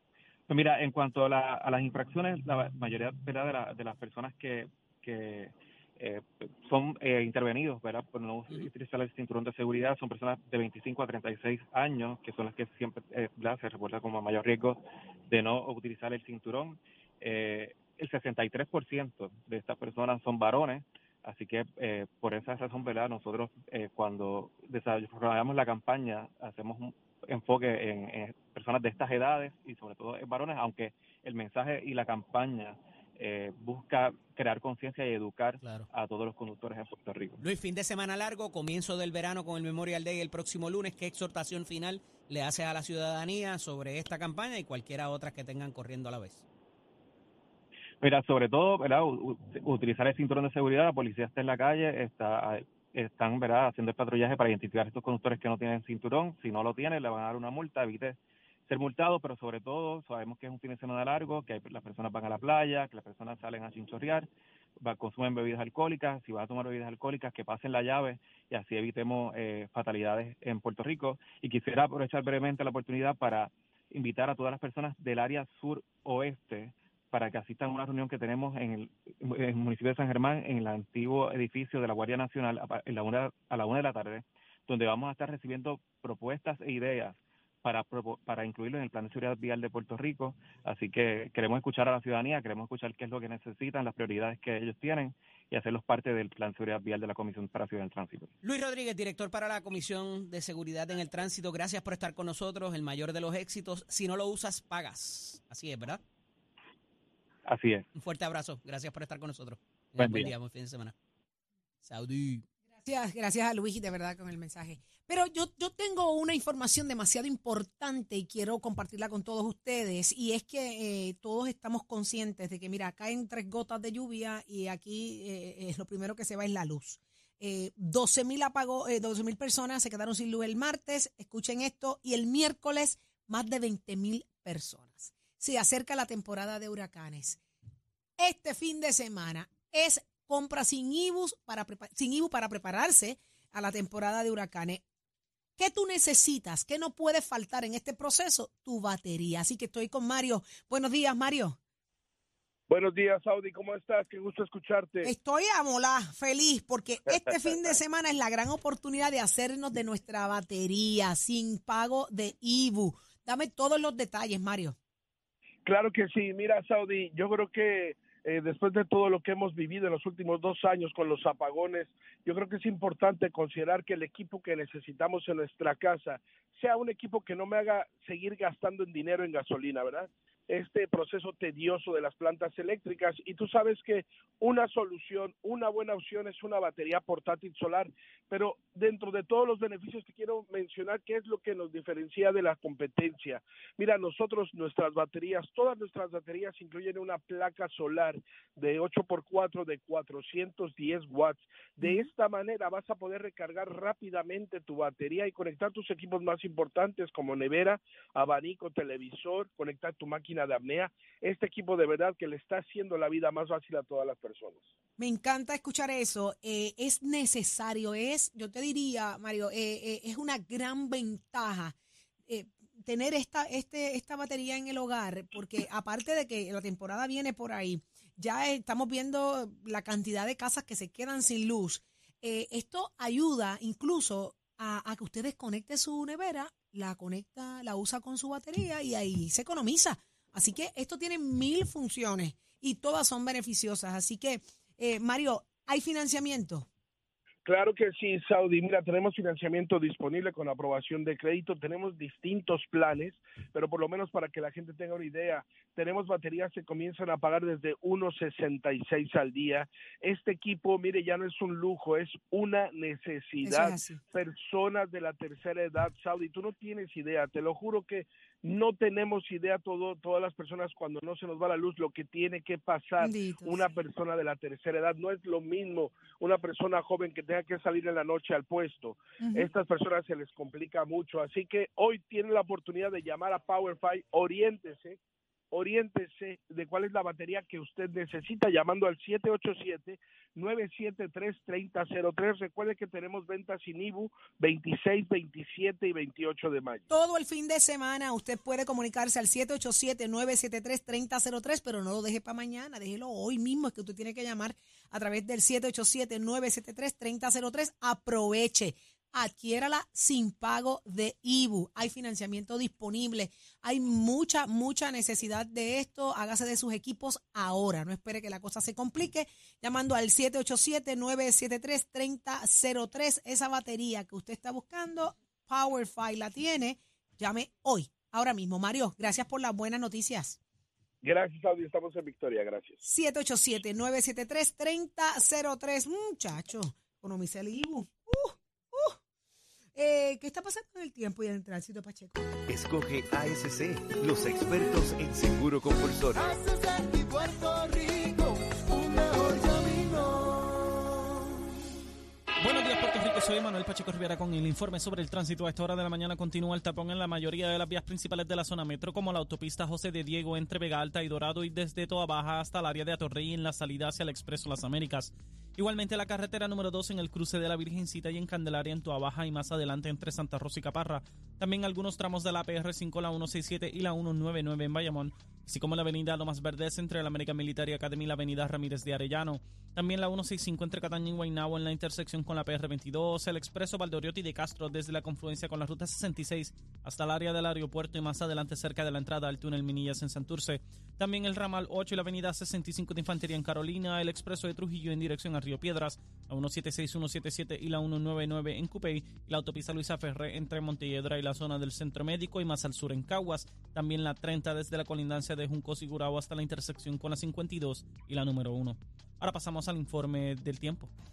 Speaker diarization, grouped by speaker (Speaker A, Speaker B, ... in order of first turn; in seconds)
Speaker A: 0.5-37.4, 48.0-64.3, 64.8-98.3, 107.5-107.9, 110.0-110.3
Speaker B: 35.6-35.9, 37.4-46.4, 98.4-106.0, 108.0-110.9, 111.8-112.5
Speaker C: 112.8-137.4, 138.2-144.8, 145.6-151.6, 155.0-164.8, 201.8-202.1, 215.0-221.8, 222.3-246.7, 263.4-264.0, 273.0-273.6, 279.2-279.5, 296.9-330.4, 332.8-339.0, 339.8-342.3
Speaker D: 152.7-155.1, 165.7-214.7, 247.4-285.0, 285.5-296.8, 331.0-332.8
Speaker E: 342.5-350.8
Speaker F: 352.4-410.9